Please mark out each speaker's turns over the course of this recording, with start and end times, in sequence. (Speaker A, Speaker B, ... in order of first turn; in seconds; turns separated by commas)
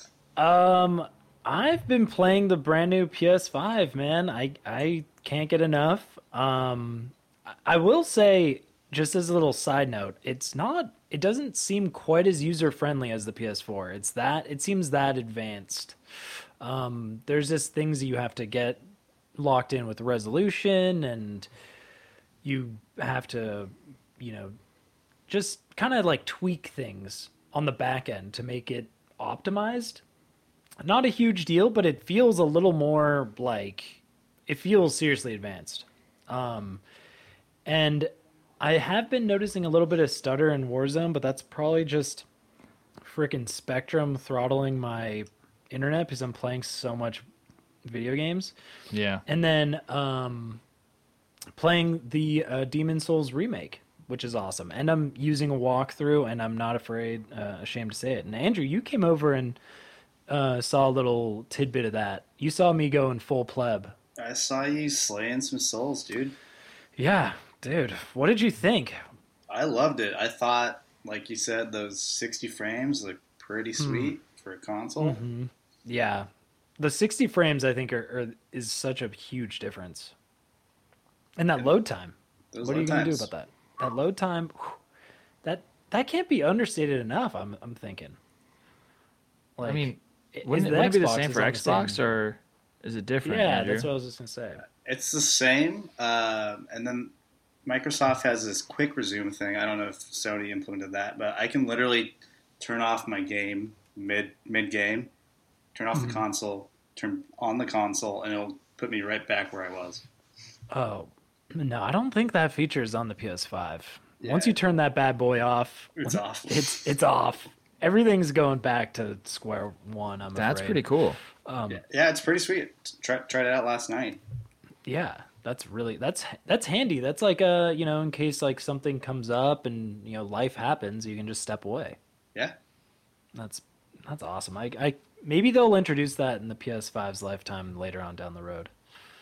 Speaker A: 0.4-16.0, Speaker A: 16.6-18.8, Speaker A: 19.4-21.5, Speaker A: 22.4-24.6, Speaker A: 25.3-30.0, Speaker A: 30.8-36.8, Speaker A: 37.7-42.3, Speaker A: 43.0-47.2, Speaker A: 47.9-48.5, Speaker B: 48.9-49.2, Speaker A: 49.3-50.6, Speaker A: 51.6-59.6, Speaker A: 60.3-63.9, Speaker C: 64.2-66.4, Speaker A: 67.0-69.0, Speaker C: 69.5-75.2, Speaker A: 73.8-74.2, Speaker A: 75.0-80.1, Speaker A: 81.4-84.8, Speaker C: 82.5-83.3, Speaker A: 85.4-88.2, Speaker A: 89.6-92.0, Speaker B: 89.7-93.9, Speaker A: 93.2-94.6, Speaker C: 94.8-97.1, Speaker C: 97.7-105.1, Speaker C: 105.8-110.0, Speaker A: 106.0-106.2, Speaker A: 110.7-120.8, Speaker C: 114.2-114.5, Speaker C: 116.0-116.8, Speaker B: 120.3-121.2, Speaker A: 121.5-121.8, Speaker C: 121.8-124.2, Speaker A: 124.8-132.0, Speaker A: 133.3-138.7